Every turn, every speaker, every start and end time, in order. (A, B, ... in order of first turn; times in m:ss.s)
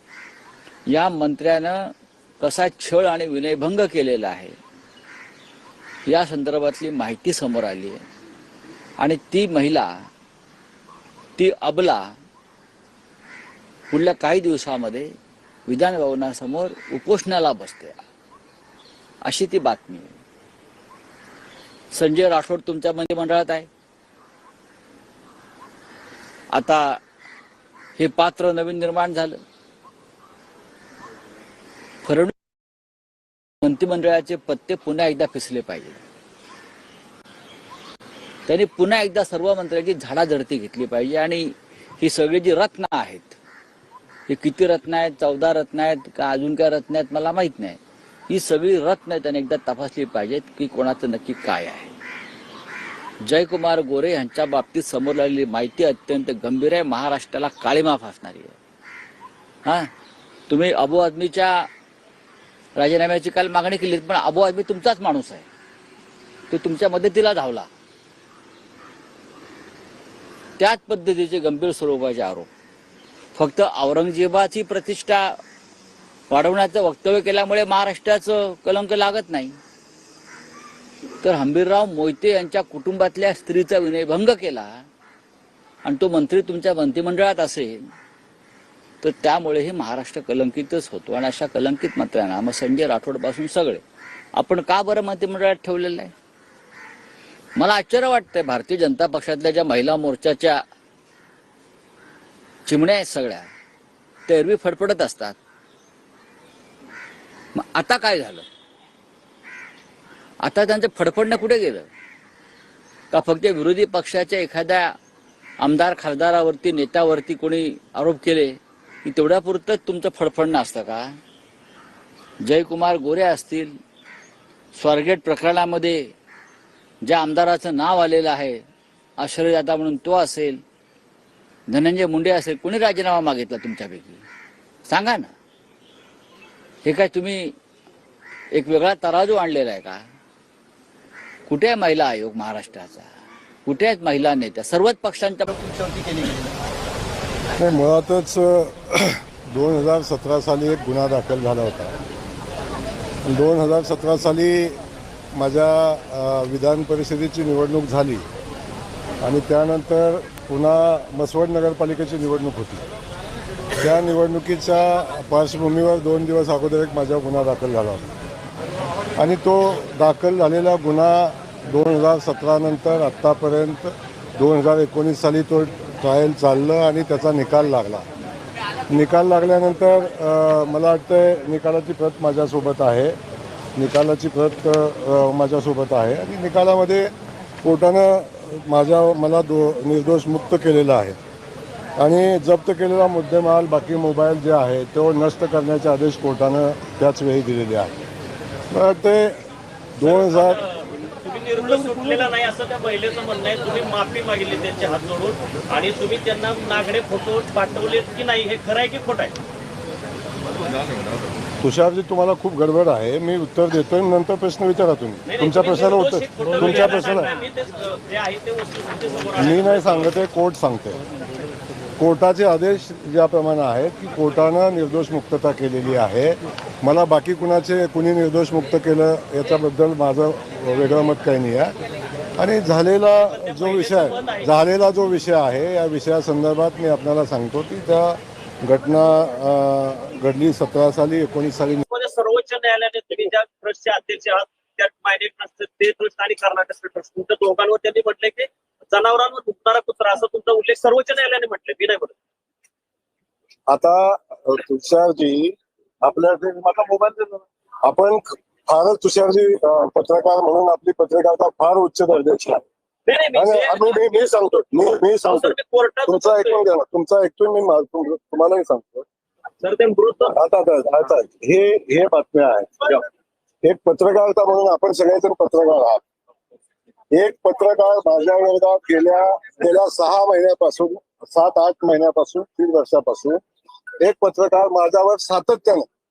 0:00.9-0:04.6 A
0:06.1-0:08.0 A
0:09.0-0:09.9 A
0:11.4-0:12.1 A
0:13.9-0:15.1 A
0:15.7-0:18.0 A
0:19.2-0:20.2 A
0:21.9-0:23.7 A
0:26.5-0:27.0 A
0:28.0-0:29.4 A
0:32.0-0:32.3 A
0:33.6-0:36.0 A
0:38.5-0:43.4 A
0:44.3-0:47.8 A
0:48.3-0:51.9 A
0:53.2-0:58.6 A
1:00.5-1:01.7 A
1:02.8-1:05.5 A
1:06.5-1:07.7 A
1:10.6-1:12.5 A
1:13.4-1:15.4 A
1:16.3-1:19.6 A
1:21.2-1:24.8 A
1:25.8-1:27.9 A
1:29.0-1:33.8 A
1:34.4-1:36.1 A
1:37.6-1:40.6 A
1:42.7-1:43.5 A
1:44.3-1:45.4 A
1:47.6-1:48.4 A
1:50.4-1:51.9 A
1:53.1-1:54.9 A
1:55.6-2:01.1 A
2:02.4-2:03.8 A
2:04.7-2:06.1 A
2:07.0-2:08.6 A
2:09.2-2:10.6 A
2:11.7-2:14.2 A
2:14.9-2:15.3 A
2:16.8-2:17.5 A
2:18.5-2:20.0 A
2:21.5-2:23.1 A
2:23.6-2:26.3 A
2:27.6-2:32.0 B
2:33.2-2:34.8 B
2:35.3-2:38.3 B
2:39.2-2:42.8 B
2:43.8-2:48.2 B
2:49.2-2:58.1 B
2:58.9-3:03.2 B
3:03.8-3:07.1 B
3:07.6-3:11.2 B
3:12.0-3:18.0 B
3:18.7-3:19.4 B
3:20.0-3:20.6 B
3:20.0-3:29.4 C
3:31.6-3:37.3 B
3:35.3-3:40.2 C
3:39.4-3:41.0 B
3:42.0-3:51.8 B
3:52.4-4:01.8 B
3:53.2-3:54.5 C
4:01.9-4:12.2 C
4:13.7-4:22.6 B
4:23.1-4:24.1 C
4:23.3-4:29.1 B
4:25.2-4:26.6 C
4:29.6-4:30.4 C
4:30.3-4:33.0 B
4:33.6-4:36.0 B
4:37.1-4:43.4 B
4:44.0-4:45.9 B